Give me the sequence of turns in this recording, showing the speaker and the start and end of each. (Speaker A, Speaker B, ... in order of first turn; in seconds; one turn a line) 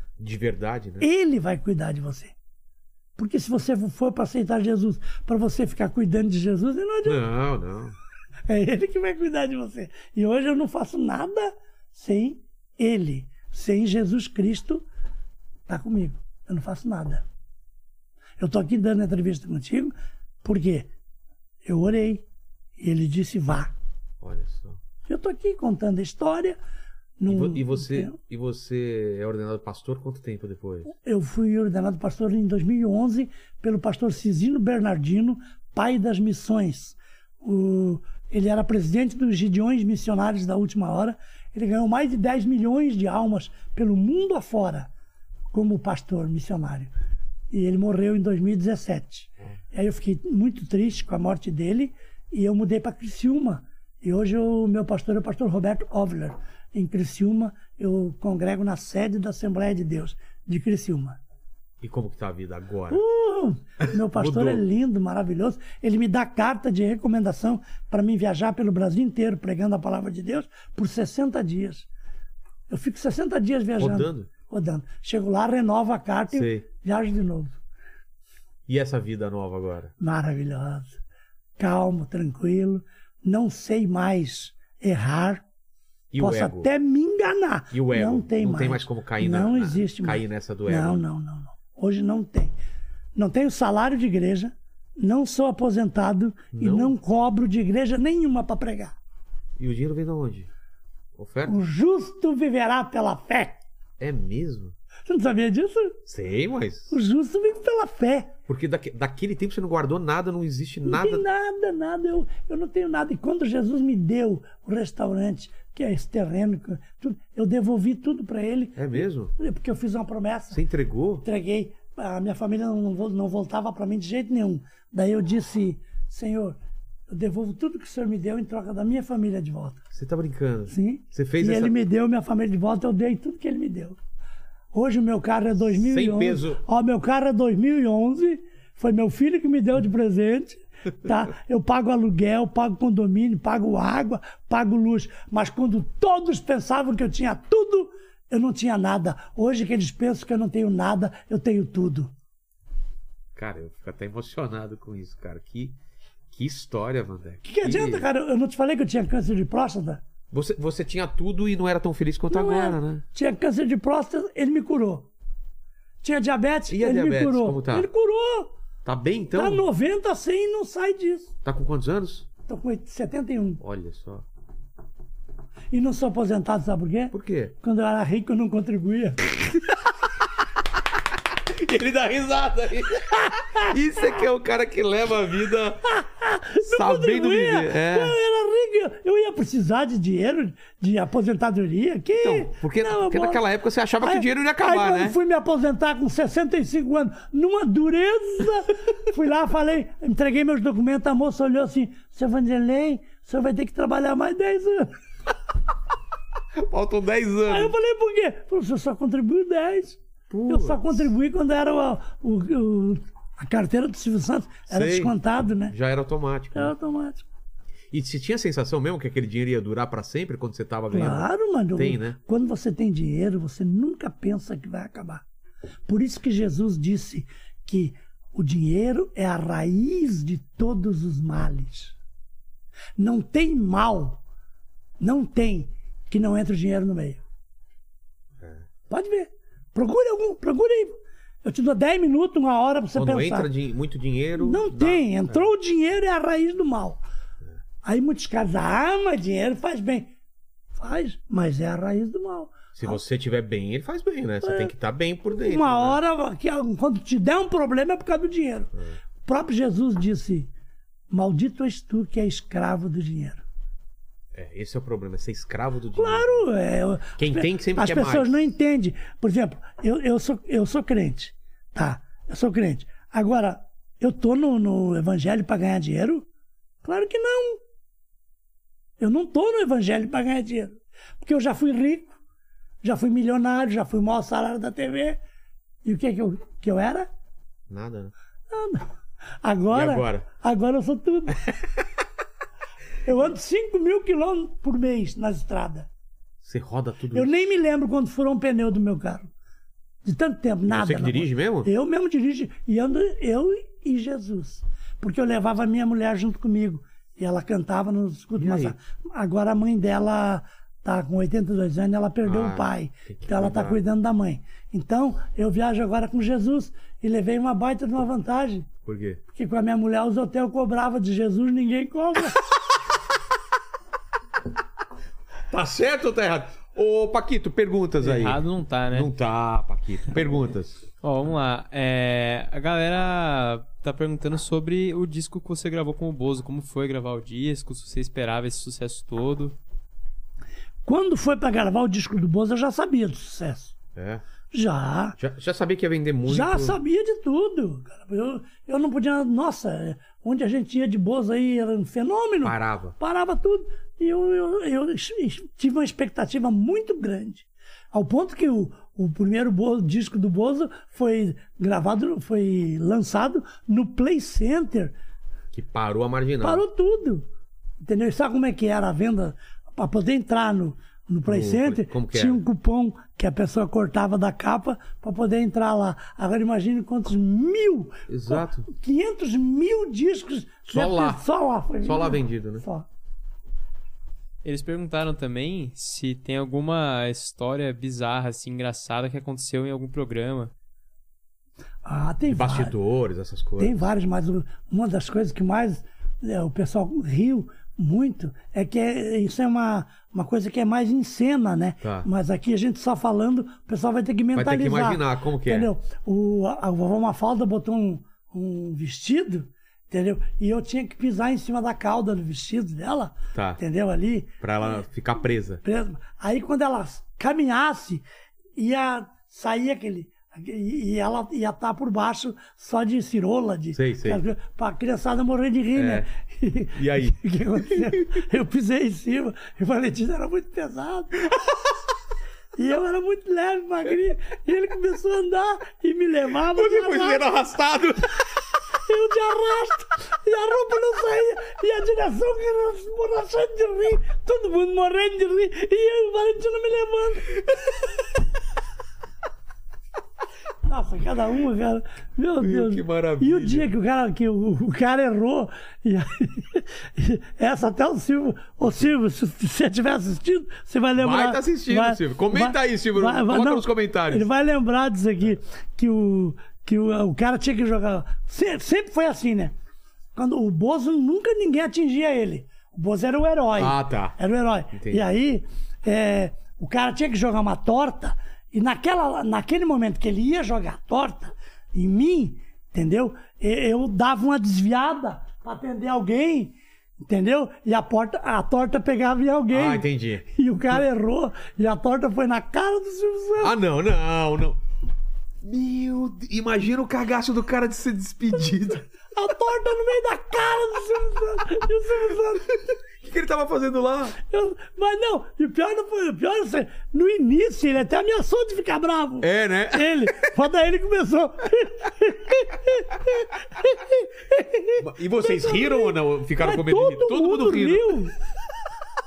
Speaker A: 0.2-1.1
Speaker B: 1.0-2.3
Speaker B: 3.2-7.2
Speaker A: 7.0-8.0
Speaker B: 8.5-14.8
Speaker B: 15.7-17.2
Speaker B: 18.4-20.9
Speaker B: 21.6-22.2
Speaker B: 22.8-23.7
Speaker A: 24.2-24.8
Speaker B: 25.1-26.6
Speaker B: 27.2-28.1
Speaker A: 27.3-30.9
Speaker B: 30.9-44.9
Speaker B: 45.5-46.9
Speaker B: 47.5-61.2
Speaker A: 61.8-63.0
Speaker B: 62.9-71.9
Speaker A: 63.9-64.6
Speaker B: 72.7-77.6
Speaker A: 73.8-74.3
Speaker A: 76.3-76.7
Speaker A: 78.7-79.9
Speaker B: 80.0-81.0
Speaker B: 81.6-85.4
Speaker A: 86.1-86.7
Speaker B: 86.2-92.5
Speaker A: 87.7-91.0
Speaker B: 93.2-98.9
Speaker A: 96.5-97.0
Speaker A: 99.6-100.5
Speaker A: 101.2-101.6
Speaker B: 101.5-103.6
Speaker A: 104.0-104.7
Speaker B: 105.1-106.0
Speaker A: 106.0-106.9
Speaker B: 106.9-108.3
Speaker A: 108.5-111.2
Speaker B: 110.8-120.6
Speaker A: 118.8-119.3
Speaker A: 120.5-121.2
Speaker B: 121.2-126.5
Speaker B: 127.1-129.8
Speaker A: 129.9-131.8
Speaker B: 130.7-134.0
Speaker B: 134.7-152.1
Speaker A: 135.8-136.6
Speaker A: 153.3-155.8
Speaker A: 156.3-158.1
Speaker B: 157.4-160.0
Speaker A: 160.3-163.0
Speaker B: 162.3-165.1
Speaker B: 166.0-168.5
Speaker A: 166.7-167.9
Speaker A: 168.8-169.6
Speaker B: 169.3-171.3
Speaker A: 171.4-172.3
Speaker B: 172.5-173.6
Speaker A: 173.6-174.2
Speaker B: 175.7-179.6
Speaker A: 177.1-177.5
Speaker A: 181.4-185.9
Speaker B: 185.8-193.4
Speaker A: 186.6-188.2
Speaker A: 192.2-195.2
Speaker B: 194.0-204.9
Speaker A: 206.6-207.7
Speaker B: 207.5-215.7
Speaker A: 210.3-211.1
Speaker A: 214.7-216.7
Speaker B: 216.5-217.2
Speaker A: 217.9-222.2
Speaker B: 220.9-225.2
Speaker B: 225.9-231.9
Speaker B: 233.0-234.2
Speaker B: 235.0-237.2
Speaker B: 238.9-243.5
Speaker A: 242.9-245.5
Speaker B: 244.4-247.0
Speaker B: 247.8-250.1
Speaker B: 250.7-253.0
Speaker A: 252.7-256.0
Speaker B: 254.4-254.7
Speaker B: 255.4-258.7
Speaker B: 259.2-260.5
Speaker B: 261.1-263.4
Speaker A: 264.3-266.5
Speaker B: 265.9-276.2
Speaker A: 267.2-268.5
Speaker B: 276.8-277.6
Speaker B: 279.0-282.1
Speaker B: 282.8-285.2
Speaker B: 285.8-287.1
Speaker A: 287.7-288.1
Speaker B: 288.5-288.9
Speaker B: 289.4-291.4
Speaker A: 289.7-290.2
Speaker A: 291.5-291.8
Speaker B: 293.0-295.9
Speaker A: 296.4-297.3
Speaker B: 297.1-299.3
Speaker B: 300.0-318.7
Speaker A: 300.7-301.7
Speaker A: 308.4-308.7
Speaker A: 312.2-313.8
Speaker A: 318.8-319.2
Speaker B: 319.3-322.4
Speaker A: 325.5-330.8
Speaker C: 328.0-329.1
Speaker C: 331.0-339.5
Speaker B: 340.8-343.7
Speaker A: 343.9-344.2
Speaker B: 344.5-345.2
Speaker A: 345.2-346.8
Speaker B: 346.2-364.9
Speaker A: 352.4-352.9
Speaker A: 365.5-366.6
Speaker B: 366.4-367.2
Speaker B: 367.8-382.9
Speaker A: 371.2-372.4
Speaker A: 378.1-378.7
Speaker A: 380.7-381.2
Speaker A: 381.8-382.6
Speaker C: 384.4-390.5
Speaker B: 391.8-392.7
Speaker A: 392.2-393.9
Speaker B: 393.6-414.4
Speaker A: 401.8-402.1
Speaker A: 404.3-405.7
Speaker A: 413.3-413.6
Speaker A: 414.4-415.6
Speaker B: 415.6-418.0
Speaker B: 418.6-431.3
Speaker A: 423.7-424.2
Speaker A: 425.7-426.1
Speaker A: 426.7-428.0
Speaker B: 432.6-437.4
Speaker A: 436.4-438.1
Speaker B: 438.8-447.4
Speaker B: 450.6-469.5
Speaker A: 452.4-453.7
Speaker A: 460.9-464.3
Speaker B: 470.1-486.5
Speaker A: 473.6-474.1
Speaker A: 474.7-475.1
Speaker B: 487.1-493.5
Speaker A: 489.5-490.8
Speaker A: 493.4-494.6
Speaker A: 495.4-498.9
Speaker B: 499.1-502.5
Speaker A: 503.0-504.1
Speaker B: 504.1-518.1
Speaker A: 509.2-510.3
Speaker A: 514.8-518.1